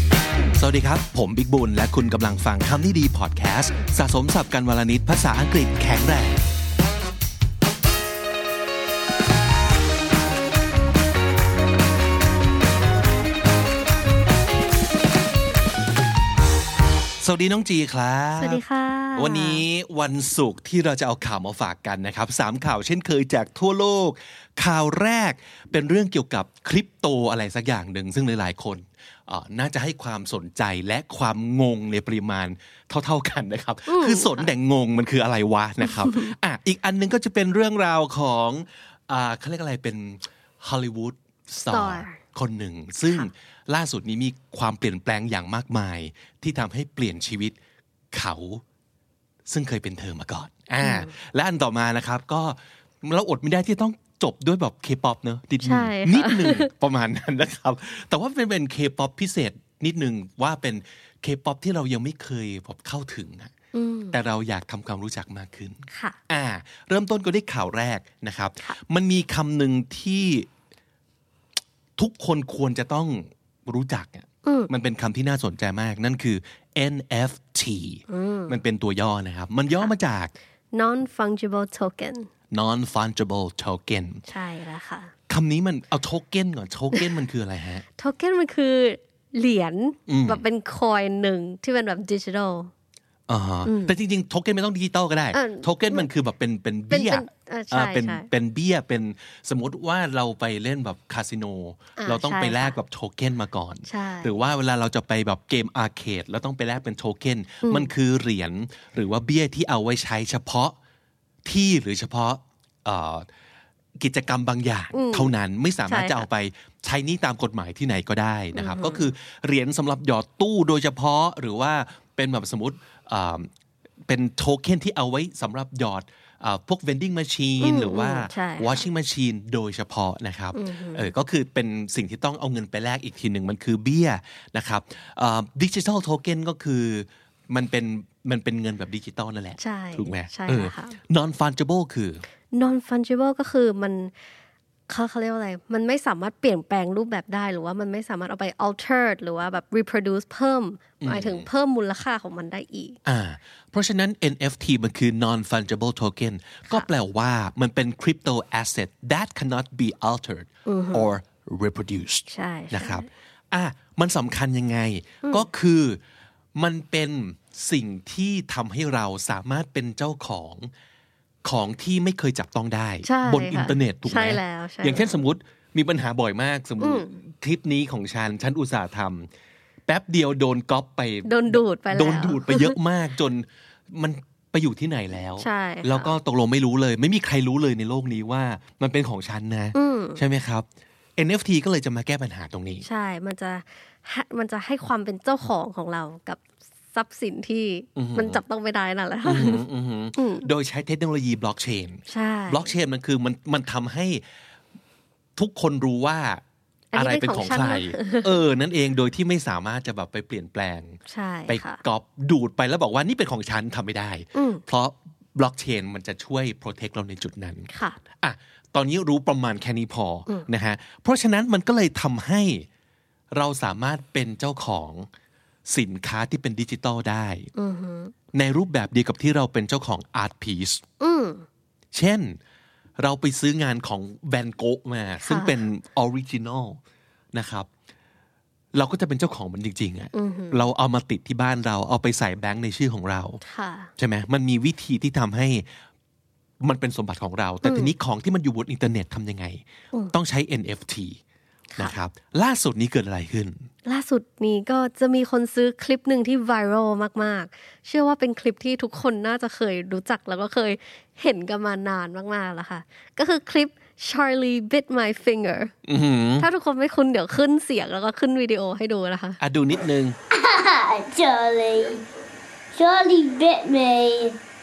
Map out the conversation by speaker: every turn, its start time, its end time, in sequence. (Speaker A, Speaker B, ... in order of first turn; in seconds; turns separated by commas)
Speaker A: 0.5-6.4, Speaker A: 17.2-18.6, Speaker B: 18.4-19.6, Speaker A: 19.2-47.5, Speaker B: 33.9-34.5, Speaker B: 36.0-36.3, Speaker B: 41.7-42.2, Speaker A: 48.1-48.6, Speaker A: 49.5-63.5, Speaker B: 50.8-51.1, Speaker B: 55.6-56.7, Speaker B: 63.7-64.2, Speaker A: 64.1-70.5, Speaker B: 65.9-66.2, Speaker A: 72.0-80.3, Speaker B: 74.5-74.7, Speaker B: 78.1-78.6, Speaker B: 80.7-82.3, Speaker A: 82.5-84.2, Speaker B: 84.3-85.1, Speaker A: 85.3-87.8, Speaker B: 88.0-92.7, Speaker A: 90.1-90.4, Speaker A: 93.3-110.8, Speaker B: 93.7-93.9, Speaker B: 95.3-96.1, Speaker B: 96.9-98.3, Speaker B: 102.0-102.8, Speaker B: 103.9-104.3, Speaker B: 107.6-107.9, Speaker A: 111.5-113.3, Speaker A: 114.0-123.5, Speaker B: 114.9-115.3, Speaker B: 115.9-116.2, Speaker B: 118.5-119.1, Speaker A: 124.1-142.2, Speaker B: 127.6-128.8, Speaker B: 130.5-131.1, Speaker B: 139.6-141.0, Speaker B: 142.5-144.1, Speaker B: 144.9-153.0, Speaker A: 151.0-151.5, Speaker A: 153.1-166.0, Speaker B: 160.7-161.1, Speaker B: 162.3-163.1, Speaker A: 166.6-170.7, Speaker A: 171.4-179.3, Speaker B: 173.0-175.2, Speaker B: 176.8-177.2, Speaker A: 179.9-192.9, Speaker B: 181.2-182.8, Speaker B: 185.4-186.1, Speaker B: 189.7-190.2, Speaker B: 192.8-196.4, Speaker B: 196.9-199.6, Speaker A: 198.0-198.4, Speaker A: 199.2-204.2, Speaker B: 200.2-200.5, Speaker B: 202.1-202.7, Speaker A: 205.4-206.4, Speaker B: 206.9-208.4, Speaker A: 206.9-222.7, Speaker B: 211.1-211.8, Speaker B: 214.3-214.6, Speaker B: 217.7-218.0, Speaker A: 223.3-225.1, Speaker A: 225.7-227.5, Speaker B: 227.6-228.1, Speaker A: 228.3-230.8, Speaker B: 231.0-231.5, Speaker A: 231.9-232.4, Speaker A: 233.0-236.8, Speaker B: 235.2-235.6, Speaker A: 237.3-237.7, Speaker A: 238.7-243.4, Speaker B: 240.1-240.6, Speaker B: 243.4-243.9, Speaker A: 244.0-245.7, Speaker A: 246.6-251.2, Speaker B: 247.7-247.9, Speaker A: 251.8-253.7, Speaker B: 253.8-265.7, Speaker A: 265.9-266.5, Speaker B: 266.4-269.4, Speaker A: 269.4-270.2, Speaker C: 270.3-272.1, Speaker C: 272.7-274.4